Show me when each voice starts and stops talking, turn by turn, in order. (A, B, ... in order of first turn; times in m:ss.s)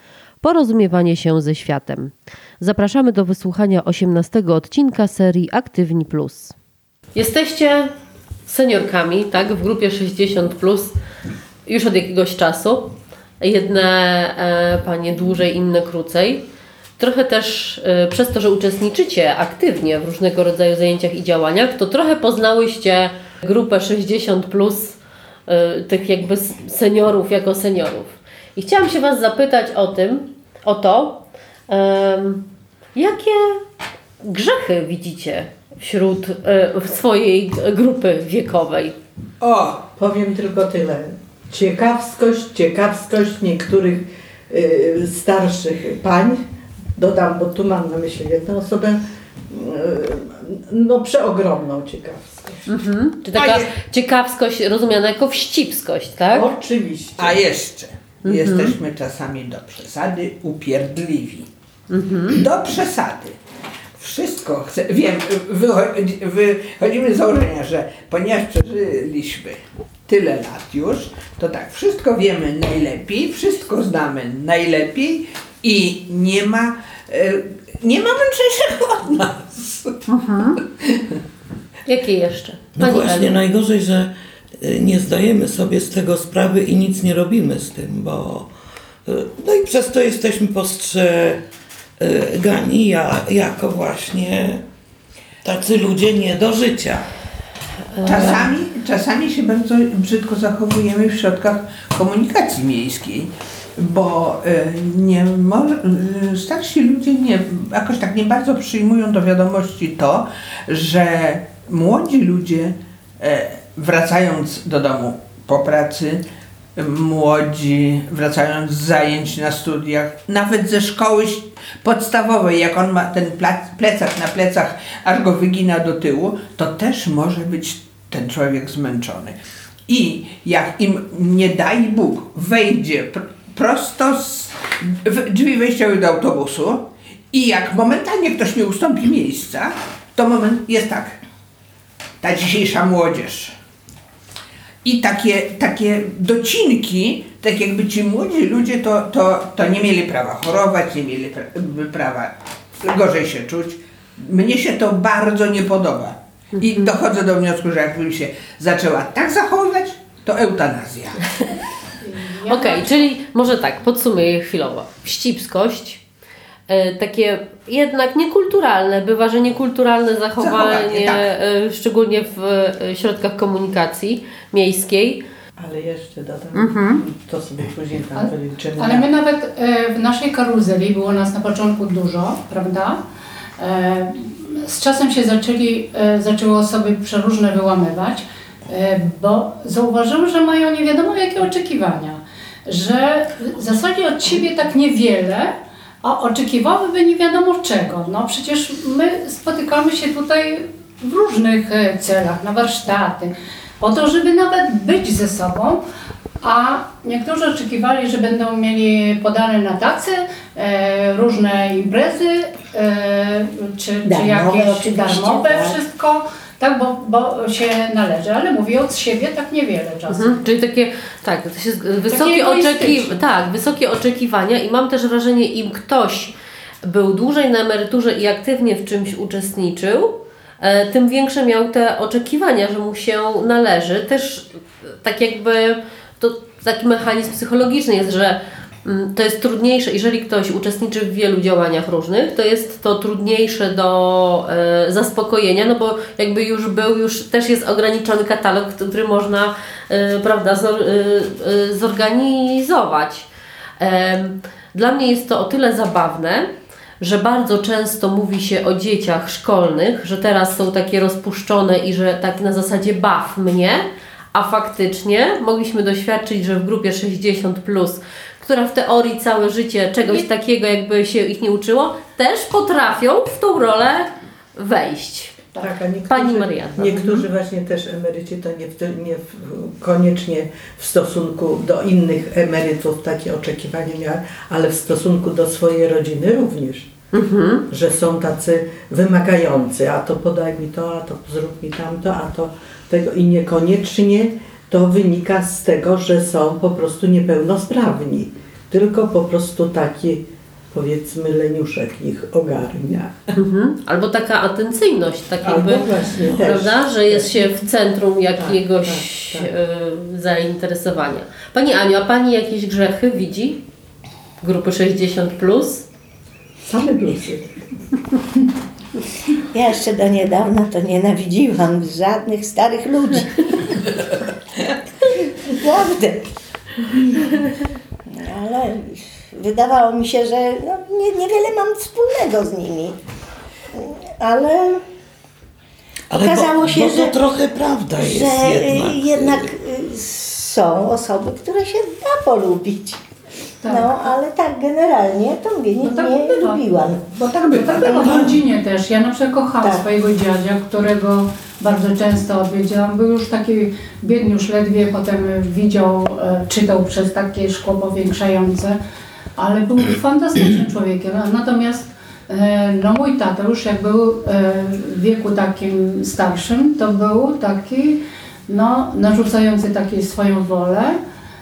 0:00.4-0:06.5 A
0:07.2-0:07.9 A
0:08.5-0:10.9 A
0:11.6-0:16.4 A
0:17.0-0:25.0 A
0:25.5-0:33.6 A
0:34.2-0:39.0 A
0:39.4-0:39.9 B
0:40.0-0:46.4 C
0:47.0-0:52.7 C
0:52.7-0:56.5 A
0:53.3-0:53.7 B
0:56.3-0:57.4 C
0:57.2-1:01.5 B
0:58.2-0:58.8 A
1:01.9-1:02.4 A
1:02.3-1:03.4 B
1:04.0-1:20.1 B
1:20.1-1:20.6 A
1:20.8-1:21.2 B
1:21.9-1:23.4 A
1:22.8-1:28.5 D
1:29.1-1:31.4 D
1:32.0-1:34.6 D
1:35.4-1:37.1 D
1:38.0-1:38.5 A
1:38.0-1:38.4 D
1:38.0-1:56.2 B
1:56.8-2:09.4 B
2:09.9-2:21.2 B
2:22.2-2:23.5 B
2:24.8-2:41.2 B
2:36.6-2:36.9 A
2:42.0-2:43.0 E
2:42.5-2:46.0 A
2:46.7-2:55.2 A
2:50.4-2:51.3 B
2:55.6-2:59.1 C
2:56.6-2:57.0 A
2:58.2-3:03.0 E
3:03.6-3:25.8 E
3:26.4-3:40.4 E
3:34.0-3:35.8 F
3:40.1-4:13.3 A
3:42.1-3:43.1 E
4:13.8-4:16.5 A
4:17.0-4:35.5 A
4:35.6-4:46.9 C
4:36.1-4:37.2 A
4:47.1-4:47.6 A
4:47.7-5:03.3 C
5:03.4-5:13.6 A
5:05.4-5:07.3 C
5:08.4-5:09.5 C
5:14.4-5:15.8 A
5:16.6-5:17.6 C
5:19.5-5:24.1 F
5:25.0-5:26.3 F
5:27.0-5:27.5 F
5:28.1-5:33.0 F
5:33.7-5:34.8 F
5:36.1-5:39.5 D
5:36.2-5:37.2 F
5:38.0-5:43.0 F
5:43.6-5:43.9 E
5:43.6-5:47.1 F
5:45.8-5:46.6 E
5:47.1-5:48.4 B
5:47.4-5:58.8 E
5:48.1-5:48.3 D
5:59.4-6:11.0 E